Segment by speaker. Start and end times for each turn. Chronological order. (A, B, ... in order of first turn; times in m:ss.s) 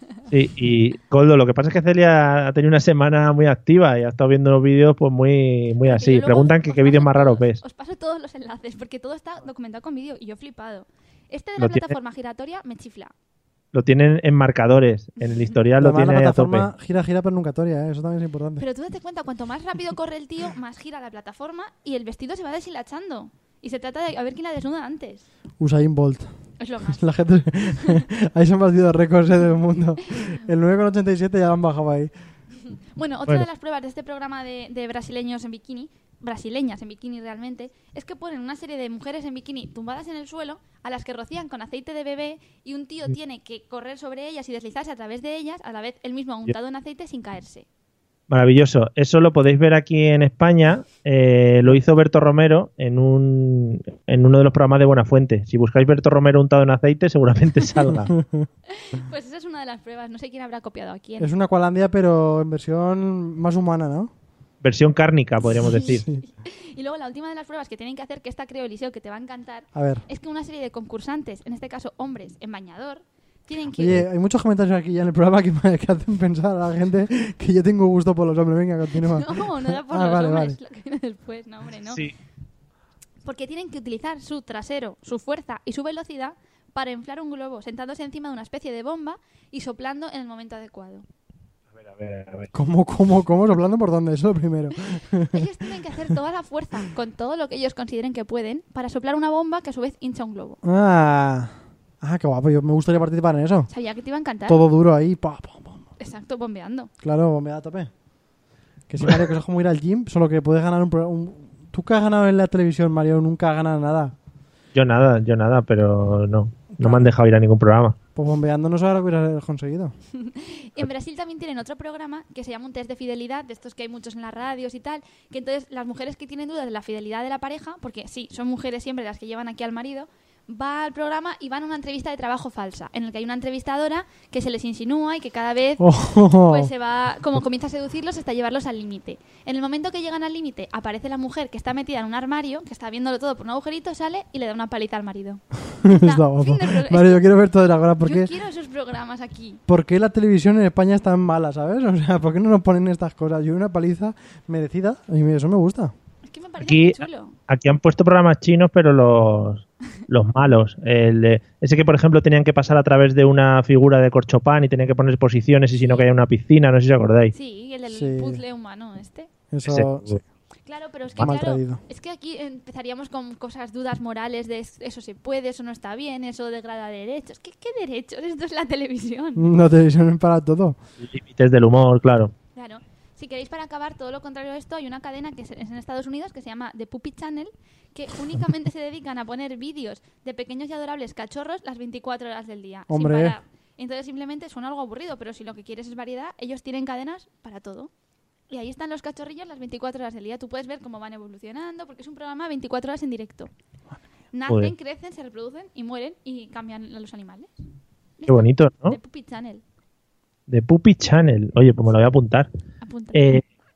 0:00.3-0:07.6 A
0:05.8-0:13.1 B
0:11.6-0:11.9 A
0:13.7-0:16.7 A
0:15.8-0:18.6 C
0:18.6-0:25.2 B
0:25.6-0:26.3 C
0:26.6-0:27.0 B
0:26.9-0:32.1 C
0:33.0-0:47.6 B
0:48.3-0:58.1 A
0:58.2-0:58.5 C
0:58.7-1:01.3 B
1:01.2-1:04.1 C
1:04.6-1:06.1 A
1:05.6-1:14.0 B
1:05.9-1:06.2 C
1:09.7-1:10.0 C
1:13.8-1:20.6 C
1:19.0-1:22.0 B
1:23.2-1:31.0 B
1:31.8-1:32.5 A
1:32.5-1:35.4 C
1:35.3-1:40.6 B
1:40.6-1:43.7 C
1:43.7-1:44.6 B
1:44.5-1:45.8 C
1:46.0-1:46.9 B
1:47.0-1:47.9 C
1:48.9-1:54.1 C
1:54.7-1:58.0 A
1:56.8-1:57.1 C
1:58.2-1:59.9 C
2:00.2-2:27.2 B
2:15.8-2:16.7 C
2:25.8-2:28.3 C
2:28.0-2:29.6 B
2:29.7-2:35.9 C
2:36.2-2:37.3 B
2:36.6-2:47.3 A
2:45.8-2:46.1 B
2:47.3-2:49.3 B
2:47.9-2:48.4 C
2:49.5-2:50.2 C
2:49.6-2:50.2 A
2:50.6-2:59.4 B
2:51.2-2:51.8 C
2:59.4-3:00.8 C
3:01.0-3:02.3 A
3:02.5-3:17.9 B
3:12.9-3:13.4 C
3:18.5-3:23.5 B
3:24.3-3:27.5 B
3:28.2-3:29.6 B
3:28.3-3:29.0 A
3:30.5-3:32.5 A
3:32.8-3:33.4 B
3:33.1-3:33.4 A